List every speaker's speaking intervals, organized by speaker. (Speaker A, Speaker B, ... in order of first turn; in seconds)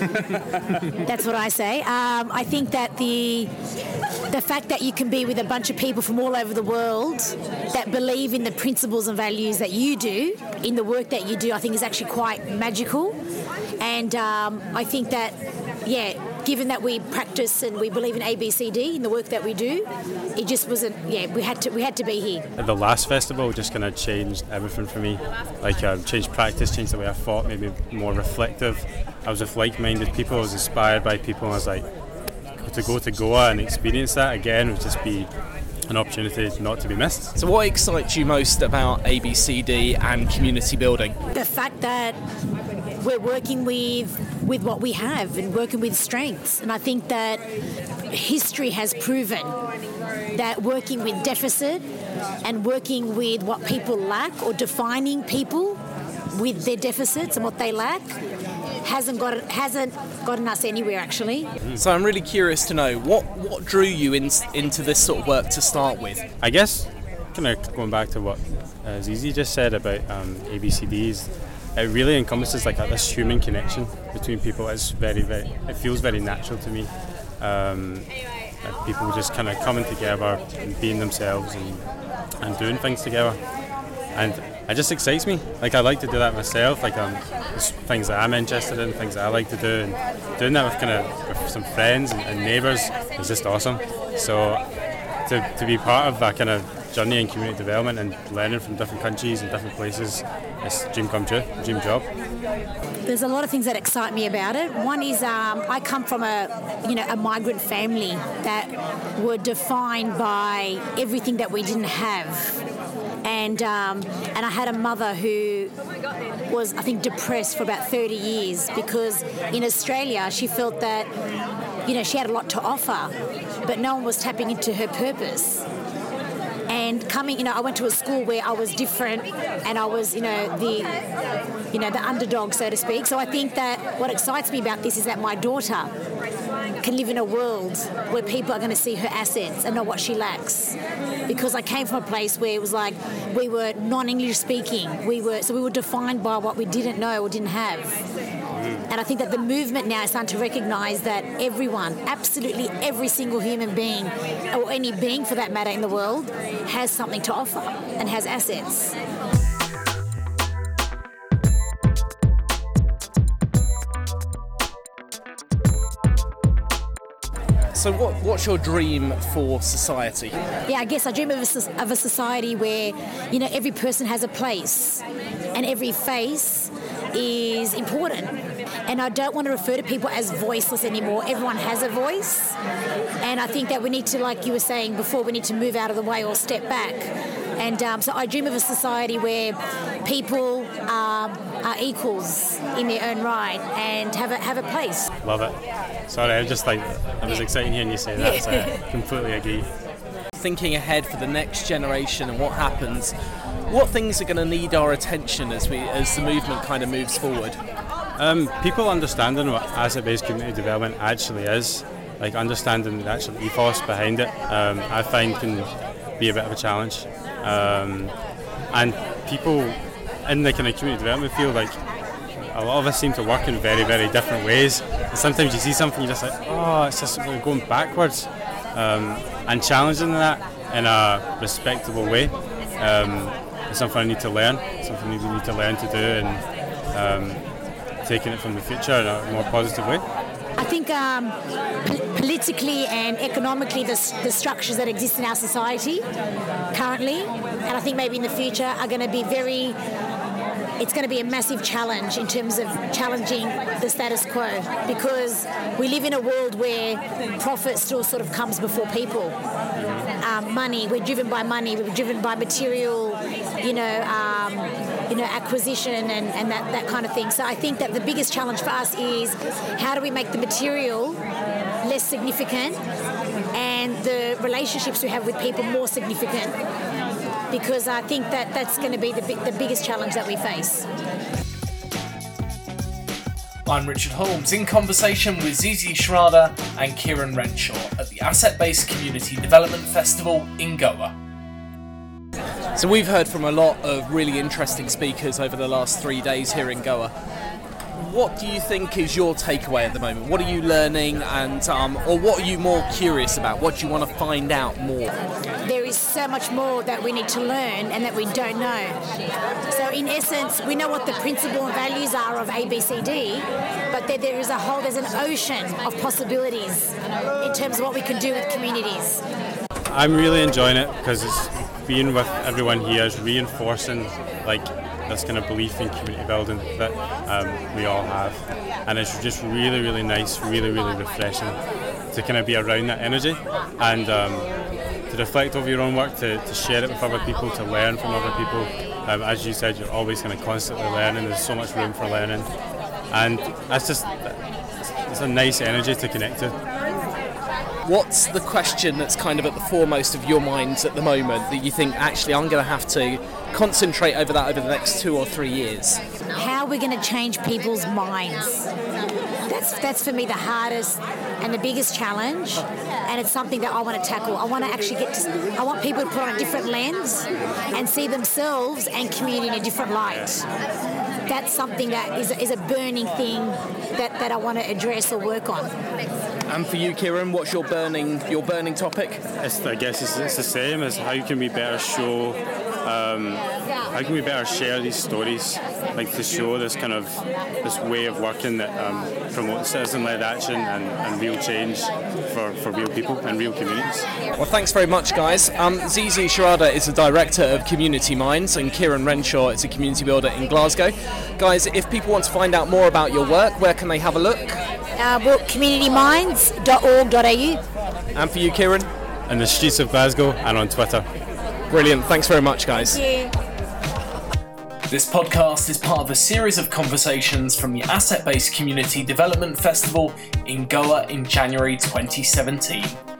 Speaker A: 0.8-3.5, 4.3-13.2, 13.8-22.4, 41.3-42.2, 43.0-47.5, 48.0-49.5, 50.3-51.8, 52.4-58.1, 58.8-61.5, 103.0-112.6, 113.2-115.7, 116.5-121.1, 121.8-125.7, 126.7-131.0, 131.7-135.9, 136.8-148.0, 148.9-159.0, 170.6-182.6, 183.2-195.1, 198.2-198.8, 240.5-246.1, 246.7-249.8, 250.8-259.4, 260.2-271.2, 271.8-272.8, 273.5-276.6, 277.5-280.9, 305.6-309.0, 309.7-319.2, 356.3-358.7, 359.5-370.4, 371.2-375.7, 404.9-407.6, 412.7-413.3
Speaker B: 22.6-31.9, 32.6-35.3, 35.9-37.3, 66.4-78.1, 78.6-81.8, 82.4-83.4, 84.1-94.6, 95.2-102.0, 148.6-148.8, 195.2-195.6, 196.1-199.7, 208.2-218.1, 218.7-221.8, 222.5-237.4, 238.0-240.0, 259.8-260.1, 319.9-331.6, 332.1-334.5, 335.1-342.5, 343.1-346.6, 370.1-370.3, 379.4-394.1, 409.3-411.0
Speaker C: 37.4-41.1, 61.8-66.2, 167.7-170.4, 200.4-203.1, 203.7-207.6, 283.6-291.1, 292.8-297.1, 297.9-305.1, 347.8-356.0, 376.5-379.2, 394.3-404.6, 408.1-408.9, 411.7-413.0, 414.9-423.0